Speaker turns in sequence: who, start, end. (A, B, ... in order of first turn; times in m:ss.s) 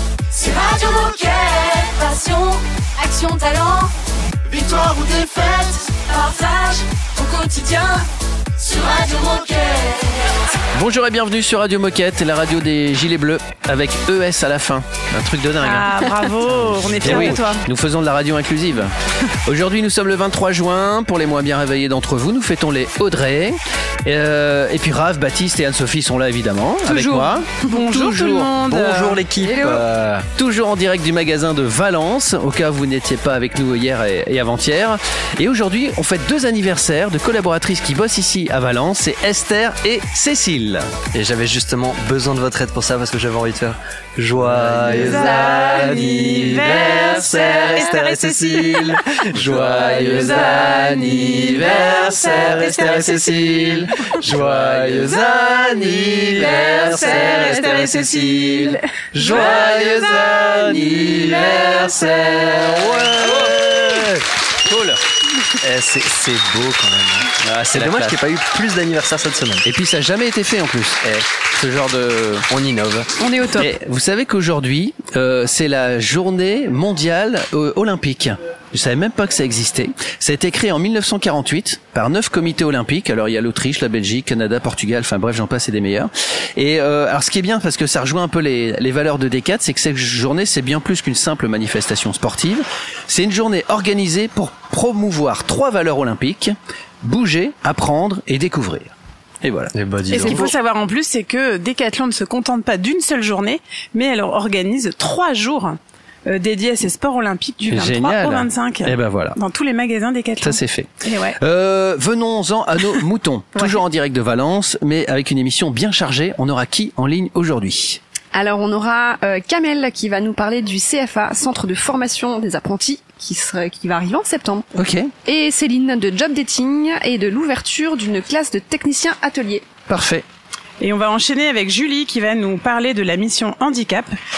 0:00.3-0:03.9 A
0:04.5-0:08.1 A
0:08.6-0:10.4 A
0:10.8-0:18.9 B
0:15.6-0:17.6 C
0:19.5-0:40.9 B
0:26.8-0:29.2 C
0:29.2-0:30.2 D
0:41.1-0:50.4 D
0:44.5-0:47.9 B
0:45.0-0:49.0 C
0:49.4-1:05.0 B
0:49.8-0:53.6 C
0:52.8-0:53.6 D
0:54.4-0:55.1 D
0:56.3-1:00.4 C
1:01.1-1:02.0 C
1:02.9-1:03.4 D
1:05.7-1:09.7 D
1:07.4-1:08.2 B
1:09.6-1:12.4 B
1:12.5-1:13.1 D
1:13.2-1:13.7 E
1:13.6-1:40.5 B
1:39.8-1:40.4 D
1:40.1-1:51.4 C
1:47.7-1:49.4 B
1:50.4-1:50.9 B
1:51.4-1:58.0 B
1:58.3-2:04.7 E
2:04.8-2:05.1 B
2:05.2-2:09.7 E
2:09.9-2:10.2 B
2:10.8-2:14.2 C